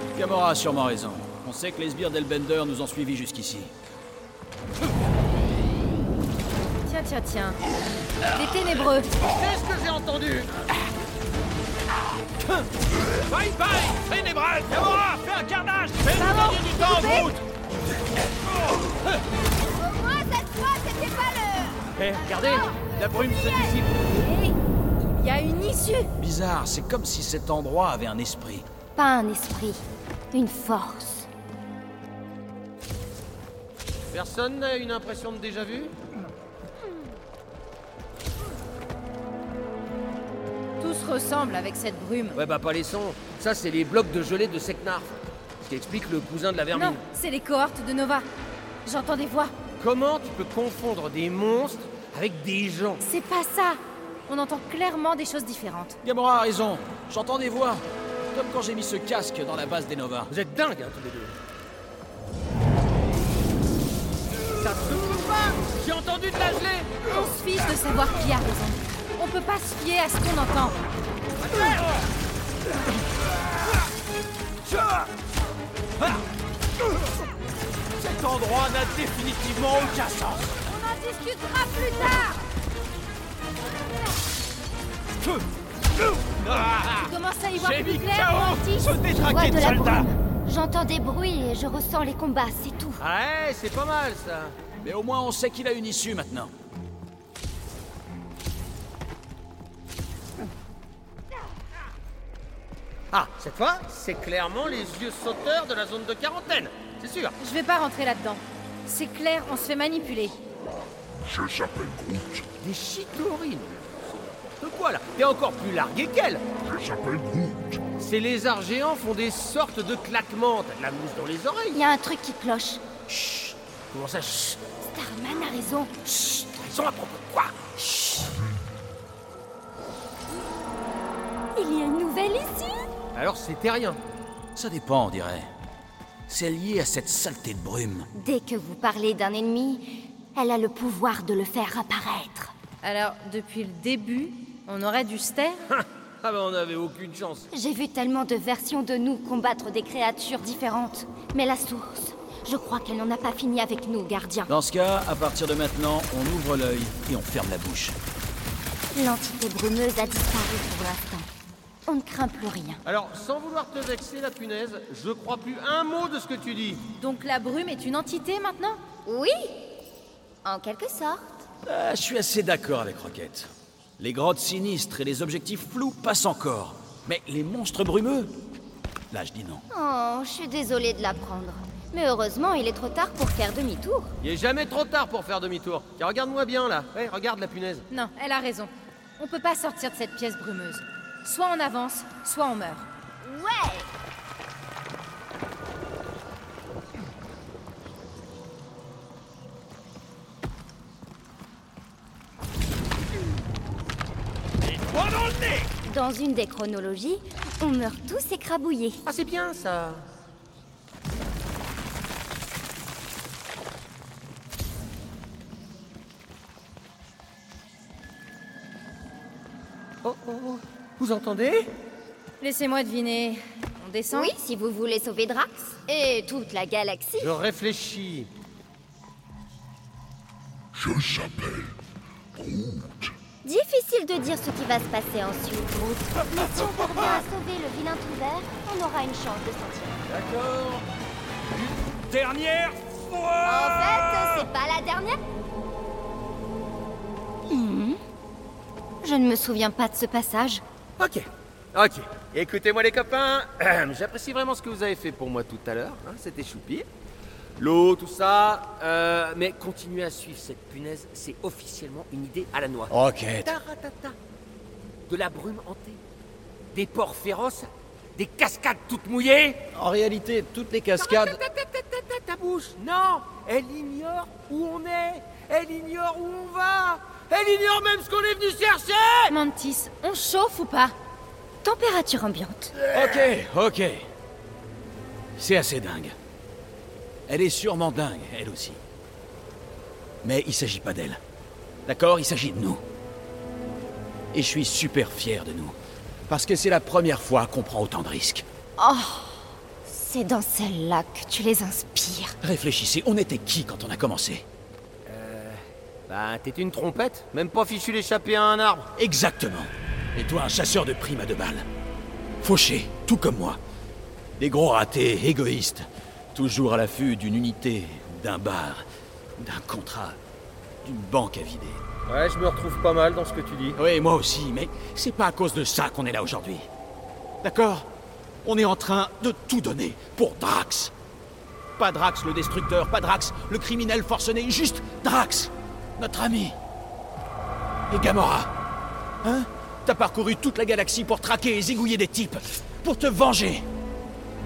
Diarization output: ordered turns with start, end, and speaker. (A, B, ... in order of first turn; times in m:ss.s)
0:00.1-0:03.7 A
0:06.8-0:07.6 B
0:08.3-0:09.2 B
0:09.2-0:10.5 C
0:13.3-0:17.4 A
0:16.2-0:17.3 B
0:19.7-0:23.7 D
0:22.0-0:23.9 C
0:23.0-0:23.7 A
0:24.0-0:26.1 B
0:26.2-0:28.6 A
0:29.0-0:31.3 D
0:34.1-0:35.9 C
0:40.8-0:42.4 B
0:42.3-0:47.0 C
0:46.7-0:48.2 B
0:48.8-0:49.5 B
0:49.8-0:53.0 C
0:53.0-0:56.0 B
0:56.0-1:00.3 A
1:00.3-1:01.3 C
1:04.5-1:06.9 C
1:07.1-1:10.8 B
1:11.4-1:11.8 C
1:14.7-1:15.0 A
1:18.0-1:20.5 A
1:20.6-1:22.4 B
1:26.0-1:30.1 A
1:27.0-1:29.0 B
1:29.1-1:33.0 D
1:33.0-1:34.5 C
1:34.8-1:36.5 A
1:43.1-1:47.3 C
1:47.4-1:50.4 B
1:51.1-1:52.4 E
1:52.6-1:56.4 C
1:56.6-1:57.8 E
1:58.0-2:01.8 C
2:01.7-2:02.8 D
2:03.1-2:04.6 C
2:04.9-2:05.9 D
2:06.0-2:07.7 C
2:11.5-2:12.9 D
2:13.1-2:14.0 C
2:14.6-2:15.5 A
2:16.3-2:18.1 A
2:18.1-2:22.5 D
2:22.8-2:25.6 B
2:25.7-2:27.5 C
2:27.5-2:34.5 D
2:34.5-2:38.0 A
2:38.9-2:41.3 D
2:41.9-2:42.8 D
2:42.8-2:46.8 C
2:47.0-2:48.8 B
2:49.0-2:49.5 D
2:50.4-2:51.4 D
2:51.6-2:58.3 A
2:59.1-2:59.6 A
2:59.7-3:04.1 D
3:04.2-3:07.8 C
3:07.9-3:12.9 B
3:13.2-3:13.9 D
3:24.9-3:25.6 C
3:25.8-3:29.0 D
3:29.0-3:30.0 C
3:40.0-3:41.7 C
3:42.4-3:44.3 B
3:44.1-3:47.3 D
3:47.2-3:48.3 C
3:50.7-3:51.7 E
3:52.4-3:53.1 E
3:53.4-4:00.0 D
4:00.1-4:00.8 A
4:01.9-4:04.4 A
4:03.4-4:05.2 D
4:07.5-4:08.0 D
4:09.0-4:10.6 D
4:11.0-4:16.9 C
4:17.6-4:22.9 C
4:22.9-4:23.5 A
4:23.4-4:24.2 C
4:25.1-4:26.0 C
4:26.7-4:29.7 C
4:29.7-4:31.4 A
4:31.0-4:39.3 C
4:39.3-4:40.9 B
4:41.6-4:42.7 D
4:42.8-4:44.0 A
4:45.4-4:46.1 A
4:47.3-4:48.8 A
4:50.2-4:51.2 A
4:51.9-4:52.8 A
4:54.3-4:55.8 A
4:56.3-4:58.4 A
4:58.8-5:02.4 D
5:02.4-5:04.4 A
5:05.1-5:08.9 C
5:09.0-5:11.6 A
5:12.4-5:13.6 A
5:14.4-5:18.8 A
5:19.4-5:20.2 A
5:20.8-5:21.8 A
5:22.1-5:23.8 C
5:23.8-5:26.7 A
5:27.4-5:27.9 A
5:28.4-5:30.9 A
5:31.8-5:36.6 A
5:37.9-5:38.5 A
5:39.2-5:43.6 A